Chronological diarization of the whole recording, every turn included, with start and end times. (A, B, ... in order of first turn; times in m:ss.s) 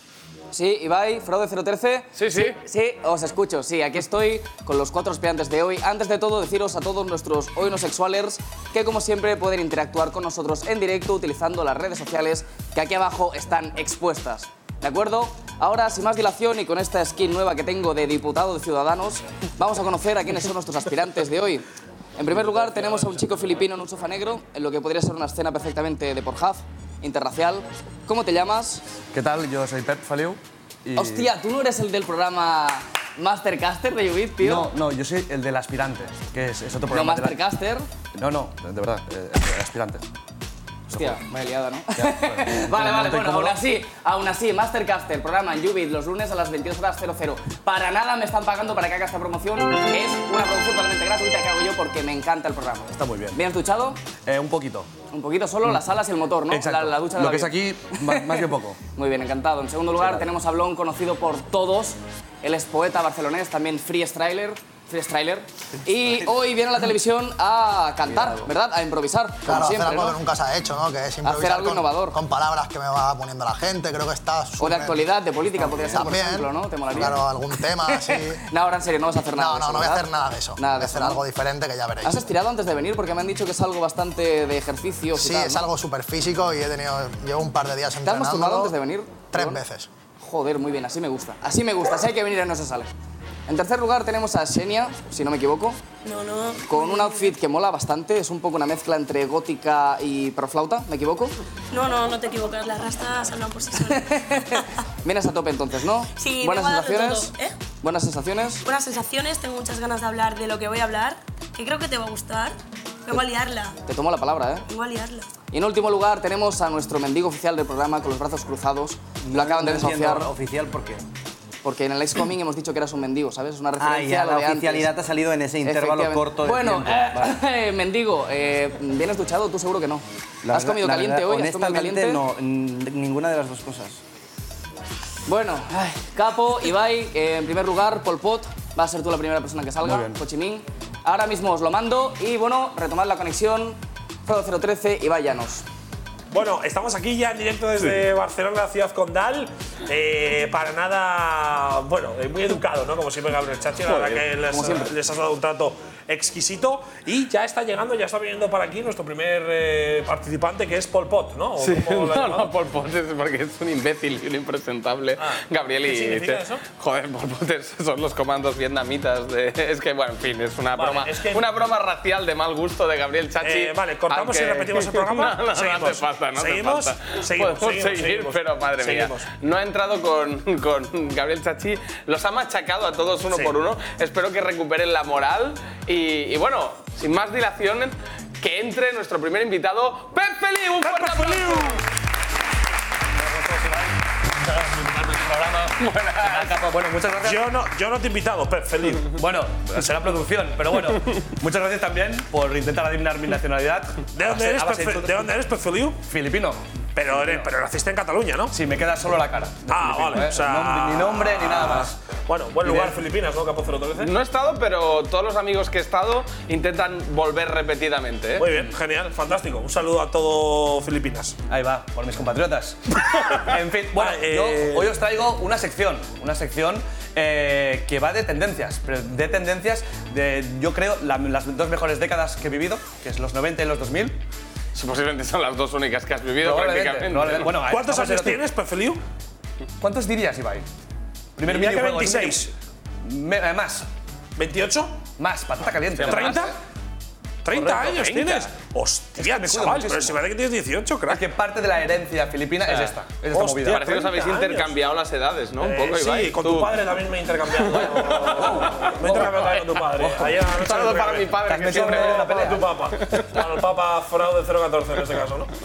0:00.5-0:21.6 A
0:02.2-0:02.6 B
0:22.2-0:28.8 A
0:22.8-0:23.1 C
0:29.1-0:31.3 C
0:30.9-0:34.7 A
0:34.4-0:37.4 C
0:36.9-0:37.8 A
0:38.1-0:40.0 C
0:40.9-0:41.2 C
0:40.9-0:54.0 A
0:42.0-0:43.6 C
0:52.9-0:53.4 C
0:54.2-0:54.9 C
0:55.1-1:10.2 A
0:56.5-0:58.8 C
1:09.4-1:15.0 D
1:11.2-1:12.2 A
1:14.6-1:21.2 A
1:15.8-1:18.4 D
1:19.3-1:22.3 D
1:22.0-1:25.7 A
1:25.1-1:28.8 D
1:28.0-1:29.6 A
1:29.3-1:29.9 D
1:30.2-1:32.9 A
1:33.5-1:35.8 A
1:36.0-1:37.3 E
1:36.7-1:41.3 A
1:41.7-1:44.7 E
1:43.9-1:48.6 A
1:46.2-1:47.5 E
1:48.6-1:53.8 E
1:53.8-1:54.6 A
1:54.7-1:55.3 E
1:55.5-2:00.3 A
1:59.2-2:01.0 F
2:01.6-2:04.9 A
2:03.8-2:07.4 F
2:05.6-2:12.2 A
2:10.4-2:14.0 F
2:15.3-2:25.6 A
2:19.8-2:20.2 C
2:26.3-2:42.5 G
2:33.8-2:34.6 B
2:34.5-2:34.9 A
2:41.6-3:11.8 B
2:45.2-2:46.6 G
2:50.7-2:51.5 G
2:53.4-2:59.3 G
3:10.8-3:11.8 G
3:13.2-3:17.5 C
3:15.7-3:16.6 B
3:17.2-3:19.1 G
3:19.1-3:25.3 C
3:24.1-3:26.0 G
3:26.0-3:26.6 C
3:27.0-3:28.5 G
3:27.1-3:27.5 C
3:28.5-3:32.0 C
3:29.7-3:34.1 G
3:32.6-3:33.0 C
3:34.0-3:38.5 B
3:38.4-3:41.4 G
3:41.5-3:54.2 C
3:44.0-3:44.9 G
3:54.8-3:57.5 B
3:56.4-3:58.4 C
3:57.6-3:59.0 G
3:59.8-4:00.7 C
4:01.4-4:02.5 C
4:01.4-4:02.5 G
4:03.0-4:03.9 C
4:04.4-4:05.0 G
4:05.2-4:06.5 C
4:06.0-4:06.5 B
4:06.1-4:06.6 G
4:07.4-4:11.2 G
4:07.5-4:08.2 C
4:08.0-4:08.5 B
4:09.2-4:10.2 C
4:11.1-4:13.9 C
4:12.7-4:12.9 B
4:13.3-4:14.7 G
4:13.6-4:16.8 B
4:15.6-4:25.5 G
4:17.6-4:18.9 B
4:18.4-4:20.4 C
4:20.5-4:23.4 B
4:21.4-4:22.7 C